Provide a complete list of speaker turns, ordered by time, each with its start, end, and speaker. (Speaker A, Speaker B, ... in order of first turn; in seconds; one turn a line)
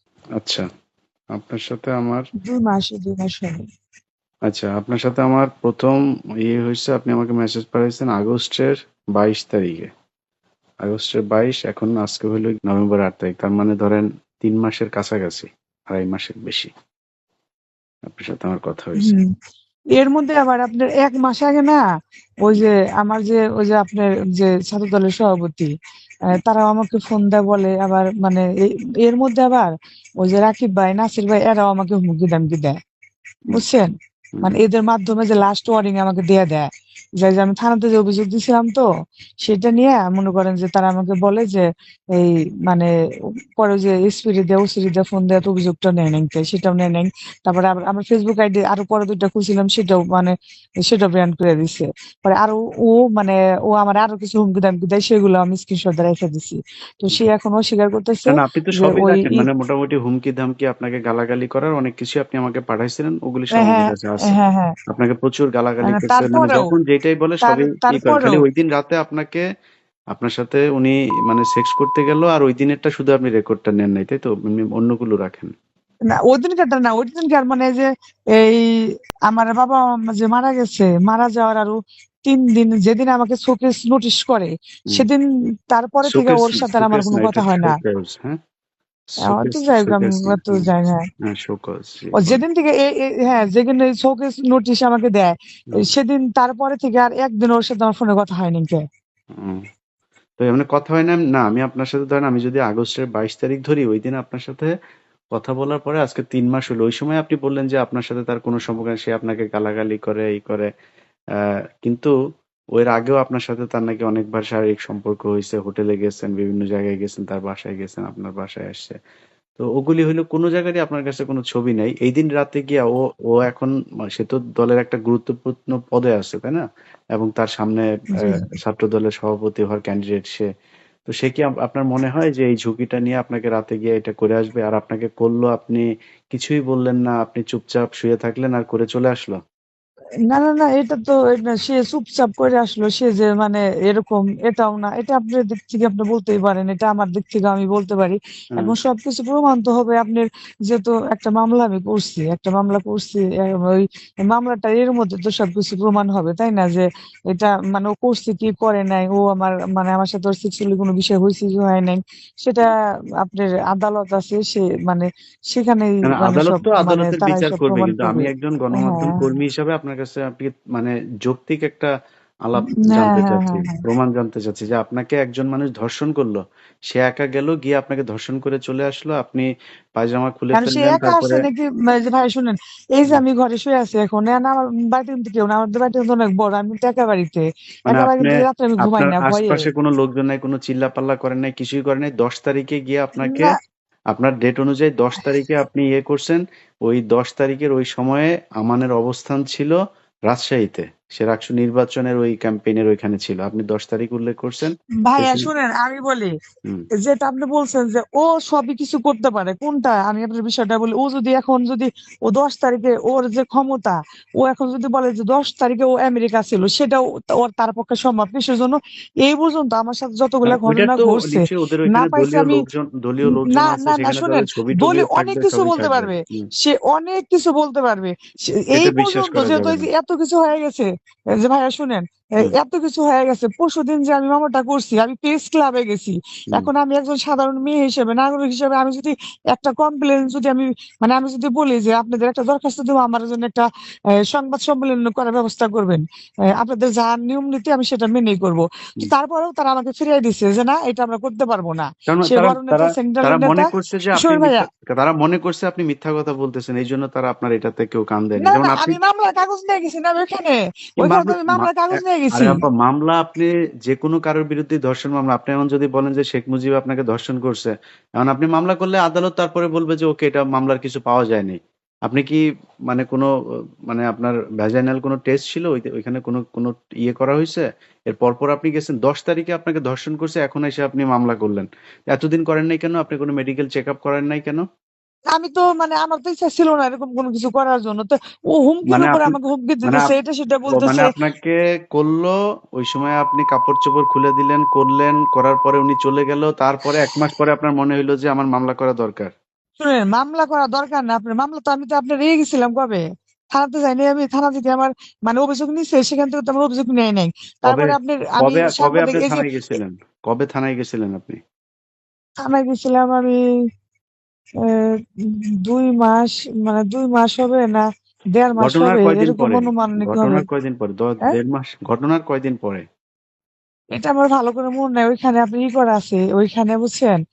Speaker A: 0.4-0.7
Speaker A: 1.3-2.3
Speaker B: 2.4-3.6
Speaker A: 4.5-9.9
Speaker A: 10.8-16.7
Speaker A: 18.1-19.2
Speaker B: 19.0-19.3
Speaker B: 20.0-21.8
Speaker B: 22.4-25.7
Speaker B: 26.3-32.8
Speaker B: 33.5-33.9
Speaker B: 34.4-38.8
Speaker B: 39.4-42.9
Speaker B: 43.6-59.5
Speaker A: 58.3-64.3
Speaker B: 63.5-64.7
Speaker A: 64.9-69.4
Speaker B: 65.8-66.7
Speaker B: 67.4-68.4
Speaker A: 70.1-75.5
Speaker B: 76.3-78.7
Speaker B: 79.3-81.7
Speaker B: 82.2-87.8
Speaker A: 86.1-88.4
Speaker A: 89.1-90.7
Speaker B: 89.2-91.0
Speaker A: 91.2-92.4
Speaker B: 92.2-98.8
Speaker A: 99.3-99.6
Speaker A: 100.4-104.7
Speaker A: 105.3-110.7
Speaker A: 111.3-112.1
Speaker A: 112.8-119.0
Speaker A: 119.6-126.6
Speaker A: 127.2-130.5
Speaker B: 128.2-128.4
Speaker A: 131.1-139.4
Speaker B: 140.3-169.2
Speaker A: 166.1-171.9
Speaker A: 172.4-181.4
Speaker B: 172.7-173.8
Speaker B: 180.5-189.7
Speaker A: 187.9-193.5
Speaker B: 193.2-193.5
Speaker A: 194.1-199.8
Speaker A: 200.3-205.5
Speaker B: 205.1-206.3
Speaker B: 207.0-222.6
Speaker A: 220.4-226.5
Speaker B: 223.2-230.9
Speaker A: 228.7-229.9
Speaker B: 231.4-243.7
Speaker B: 244.2-246.0
Speaker B: 246.5-254.7
Speaker A: 252.1-259.0
Speaker B: 258.4-262.6
Speaker A: 261.0-273.3
Speaker A: 273.9-284.6
Speaker B: 285.3-291.1
Speaker A: 288.9-290.1
Speaker A: 290.7-299.3
Speaker B: 299.8-303.0
Speaker B: 303.5-309.4
Speaker A: 307.6-311.4
Speaker B: 312.4-313.4
Speaker B: 314.6-320.4
Speaker A: 318.6-322.8
Speaker B: 323.9-327.2